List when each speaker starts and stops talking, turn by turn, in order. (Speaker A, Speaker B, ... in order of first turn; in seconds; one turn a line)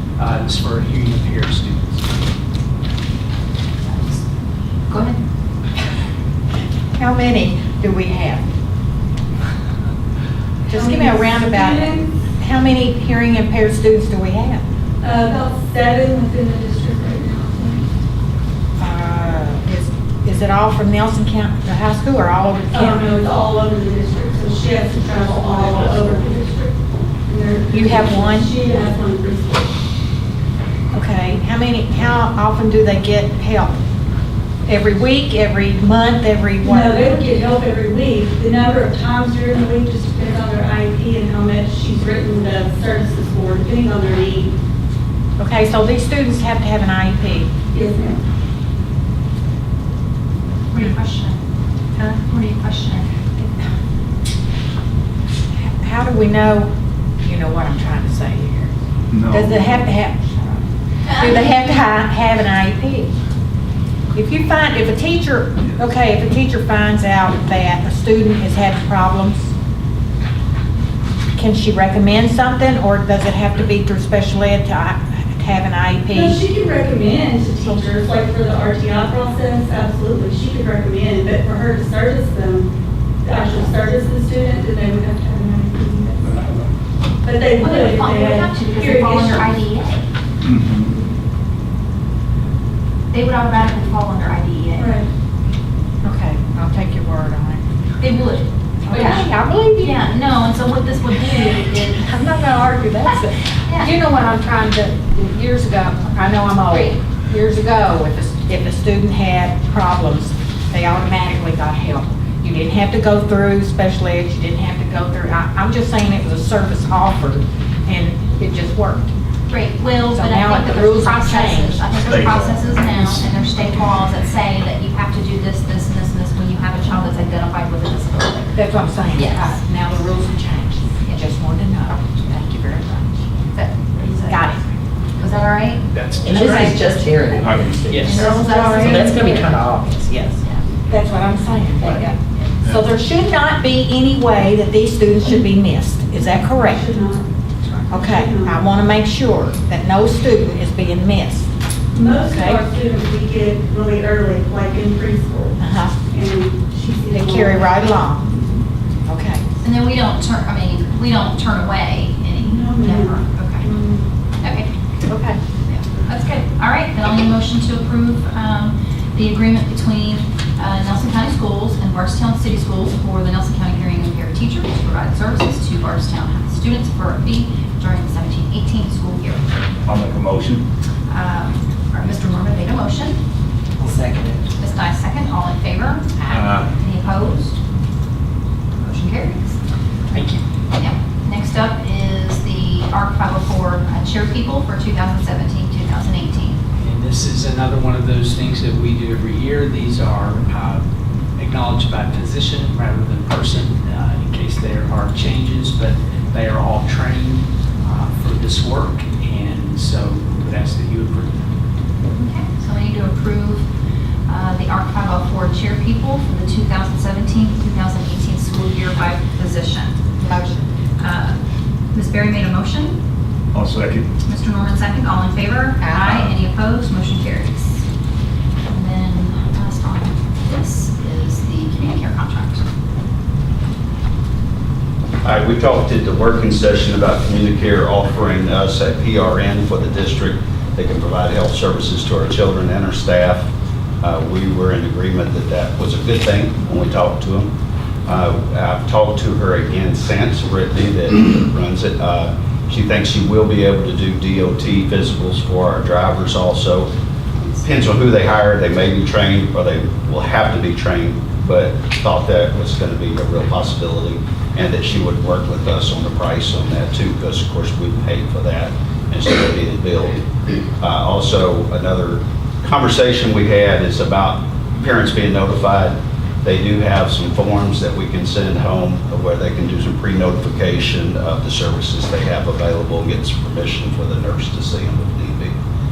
Speaker A: 0.2-2.0
Speaker B: 3.9-4.2
Speaker B: 4.9-5.2
Speaker C: 7.0-8.5
Speaker C: 10.7-14.7
Speaker D: 10.7-12.1
Speaker D: 15.0-17.9
Speaker C: 18.8-23.1
Speaker D: 22.7-29.8
Speaker C: 27.7-28.5
Speaker C: 30.9-33.8
Speaker C: 34.7-37.1
Speaker D: 36.6-44.6
Speaker C: 45.4-47.5
Speaker D: 47.7-48.2
Speaker B: 50.7-51.4
Speaker B: 52.2-53.1
Speaker C: 55.8-56.7
Speaker C: 57.2-58.7
Speaker E: 59.1-59.8
Speaker C: 59.3-63.1
Speaker B: 61.1-61.4
Speaker C: 64.1-69.5
Speaker C: 71.4-76.4
Speaker D: 76.1-82.7
Speaker D: 83.2-86.5
Speaker D: 87.2-89.6
Speaker B: 87.6-90.1
Speaker E: 90.4-90.9
Speaker B: 93.1-94.9
Speaker D: 94.8-95.1
Speaker C: 96.0-97.6
Speaker B: 98.0-99.3
Speaker C: 98.9-100.0
Speaker B: 99.8-102.1
Speaker C: 101.5-119.1
Speaker B: 103.7-103.9
Speaker B: 119.5-128.6
Speaker C: 120.1-121.8
Speaker E: 122.1-123.3
Speaker C: 128.6-133.2
Speaker B: 129.1-129.6
Speaker B: 133.5-134.5
Speaker C: 134.2-134.7
Speaker B: 135.2-139.6
Speaker A: 135.9-136.8
Speaker F: 136.2-138.1
Speaker E: 137.4-138.0
Speaker A: 137.9-138.3
Speaker C: 138.1-139.4
Speaker F: 138.9-140.4
Speaker C: 140.9-146.9
Speaker B: 141.8-142.5
Speaker D: 146.5-147.3
Speaker C: 147.9-151.5
Speaker D: 147.9-148.6
Speaker D: 151.9-158.6
Speaker C: 152.2-152.6
Speaker C: 155.6-156.0
Speaker C: 157.1-158.3
Speaker C: 159.1-159.5
Speaker B: 159.6-163.7
Speaker D: 162.4-164.1
Speaker B: 164.4-164.7
Speaker C: 165.1-165.4
Speaker B: 165.7-179.7
Speaker E: 179.9-180.6
Speaker B: 181.1-183.2
Speaker F: 183.8-184.4
Speaker B: 184.6-187.6
Speaker E: 186.3-186.7
Speaker B: 188.8-189.6
Speaker A: 190.1-190.4
Speaker B: 190.7-196.6
Speaker A: 196.8-200.8
Speaker A: 201.4-211.4
Speaker B: 212.1-213.7
Speaker B: 214.3-220.0
Speaker C: 220.2-220.7
Speaker B: 221.0-221.4
Speaker B: 221.9-223.0
Speaker E: 223.5-224.1
Speaker B: 224.3-227.8
Speaker C: 225.8-226.2
Speaker B: 228.7-232.6
Speaker G: 235.2-243.5
Speaker G: 244.0-247.5
Speaker G: 248.1-256.9
Speaker G: 257.4-270.2
Speaker G: 270.8-285.6